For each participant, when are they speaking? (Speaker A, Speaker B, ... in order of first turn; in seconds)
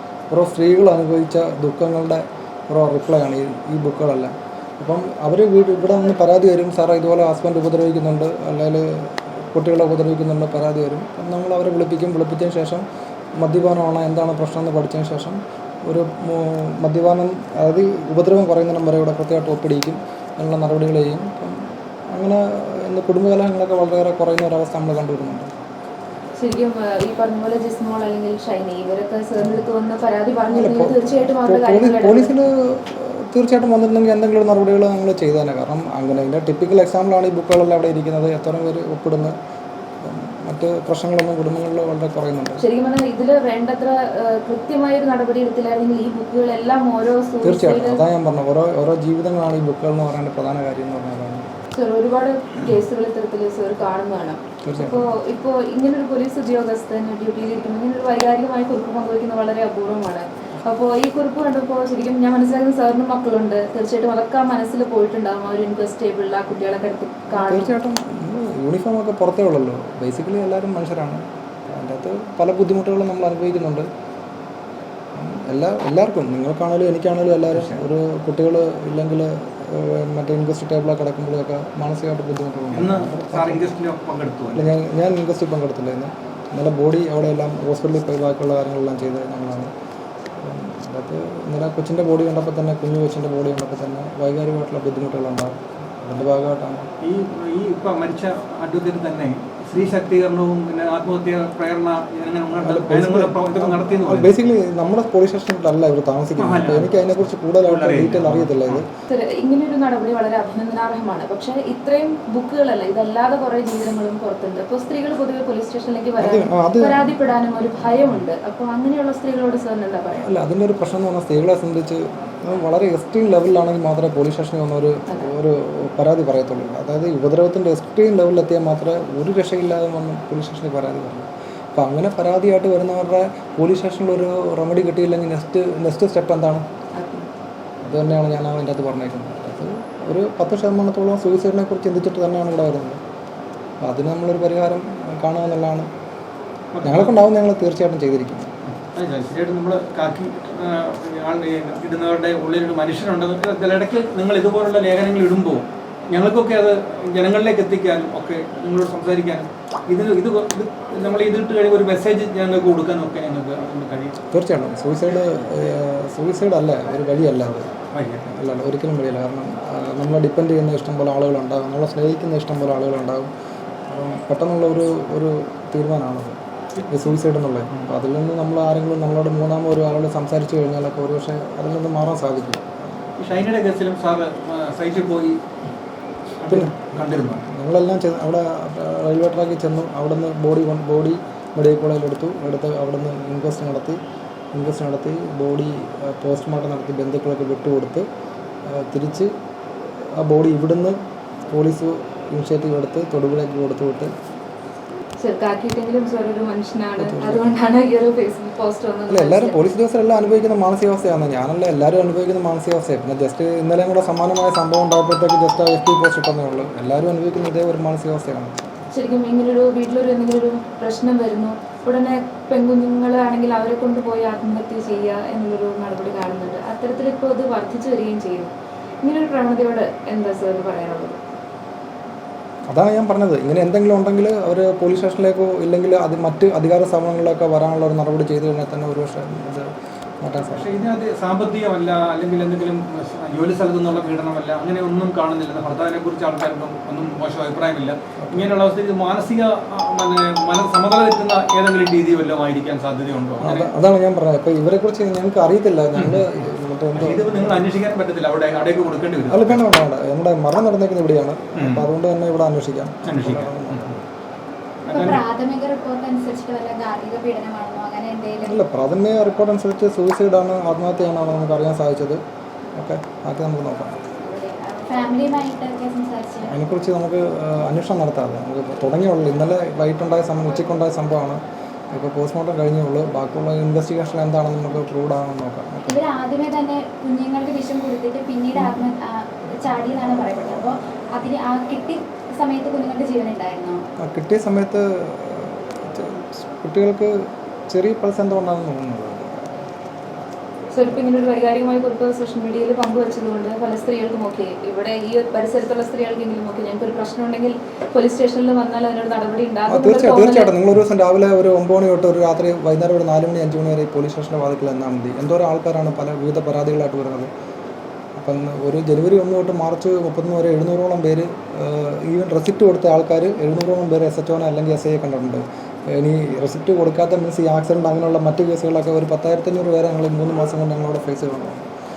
Speaker A: 0.3-12.8, 13.4-25.5, 30.5-39.4, 40.0-42.6, 47.4-51.5, 54.6-55.1, 67.3-73.9, 75.2-83.7, 84.5-89.7, 90.4-96.9, 102.5-108.9, 116.2-117.1, 120.2-136.6, 137.8-143.0, 143.8-145.9, 146.8-148.5, 164.3-167.7, 168.3-173.3, 173.9-182.8, 186.5-194.0, 194.5-198.1, 198.7-199.3, 199.9-201.0, 201.5-204.1, 207.0-207.6, 209.1-218.6, 232.7-239.7, 240.2-240.7, 248.2-248.5, 253.4-257.6, 259.3-264.0, 268.4-272.2, 272.8-274.0, 276.4-281.4, 281.9-286.0, 288.6-288.8, 294.0-297.2, 297.7-299.6, 309.7-317.3, 318.2-331.7
Speaker B: 26.4-32.4, 42.6-48.0, 51.7-67.7, 109.1-120.3, 137.0-137.3, 205.2-209.6, 218.9-231.2, 300.7-310.5
Speaker C: 77.5-77.8, 82.7-84.7, 97.0-104.4, 106.4-108.8, 146.7-147.2, 148.8-164.2, 167.9-168.3, 176.8-177.2, 183.2-185.4, 186.4-187.4, 240.4-253.7, 256.0-256.2, 256.9-259.7, 261.6-261.9, 263.1-264.0, 264.9-265.2
Speaker D: 264.9-268.6, 274.2-276.5, 285.9-293.8